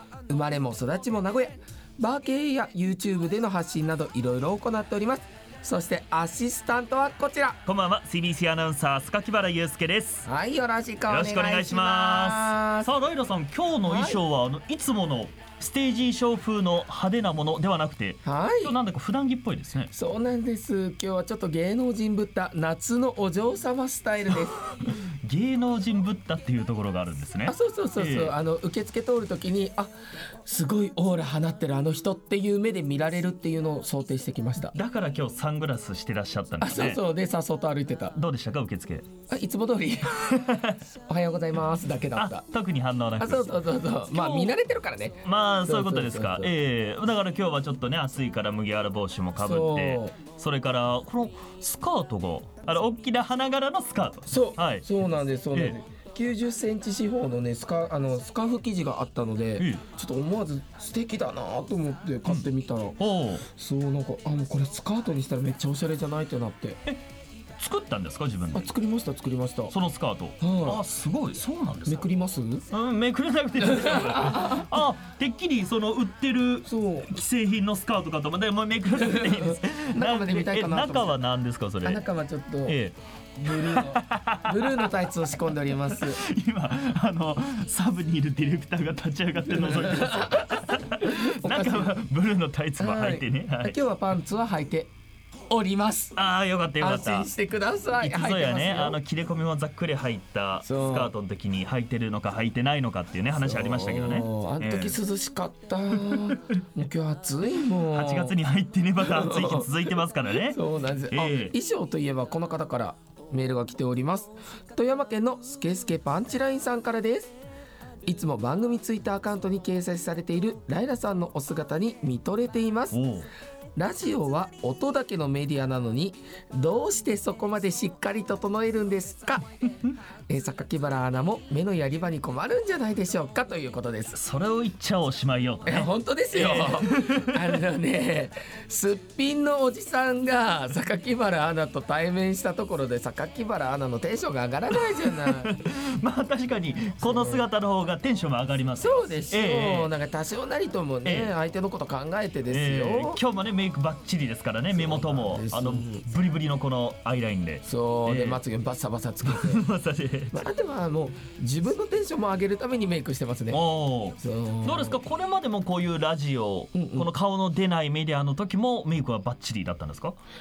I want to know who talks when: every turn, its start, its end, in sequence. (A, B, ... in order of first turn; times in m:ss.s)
0:00.3-0:07.6 A
0:07.6-0:10.3 B
0:10.3-0:12.9 A
0:11.1-0:19.9 B
0:13.9-0:14.2 A
0:18.2-0:18.8 A
0:19.9-0:24.6 A
0:24.8-0:28.3 B
0:27.4-0:29.9 A
0:30.4-0:34.7 A
0:34.7-0:37.0 B
0:36.6-0:38.2 A
0:38.1-0:39.1 B
0:39.3-0:40.3 A
0:40.3-0:40.8 B
0:41.1-0:42.4 A
0:42.1-0:44.6 B
0:43.2-0:46.5 A
0:45.2-0:54.9 B
0:49.4-0:50.2 A
0:54.3-1:06.8 A
0:59.6-0:59.8 B
1:03.0-1:03.4 B
1:07.6-1:08.7 B
1:08.5-1:09.8 A
1:09.7-1:12.1 B
1:10.4-1:10.8 A
1:11.9-1:12.6 A
1:12.7-1:22.0 B
1:13.6-1:14.7 A
1:16.6-1:17.1 A
1:19.0-1:21.2 A
1:21.8-1:22.8 A
1:22.7-1:33.8 B
1:23.4-1:26.2 A
1:29.6-1:31.9 A
1:32.8-1:34.9 A
1:35.5-1:36.2 A
1:36.2-1:37.3 B
1:36.8-1:39.0 A
1:38.0-1:45.0 B
1:40.6-1:41.1 A
1:43.4-1:48.4 A
1:45.9-1:46.4 B
1:47.6-1:50.6 B
1:49.0-1:49.7 A
1:50.3-1:57.3 A
1:51.1-1:51.5 B
1:58.1-2:03.0 A
2:02.9-2:03.3 B
2:03.8-2:09.5 A
2:10.3-2:14.2 A
2:14.1-2:17.6 B
2:15.7-2:25.5 A
2:24.7-2:29.9 B
2:27.0-2:27.4 A
2:28.8-2:33.2 A
2:31.0-2:31.3 B
2:32.5-2:38.4 B
2:34.7-2:36.0 A
2:37.6-2:39.6 A
2:39.2-2:40.4 B
2:40.3-2:43.6 A
2:43.5-2:50.2 B
2:44.2-2:45.0 A
2:46.7-2:47.1 A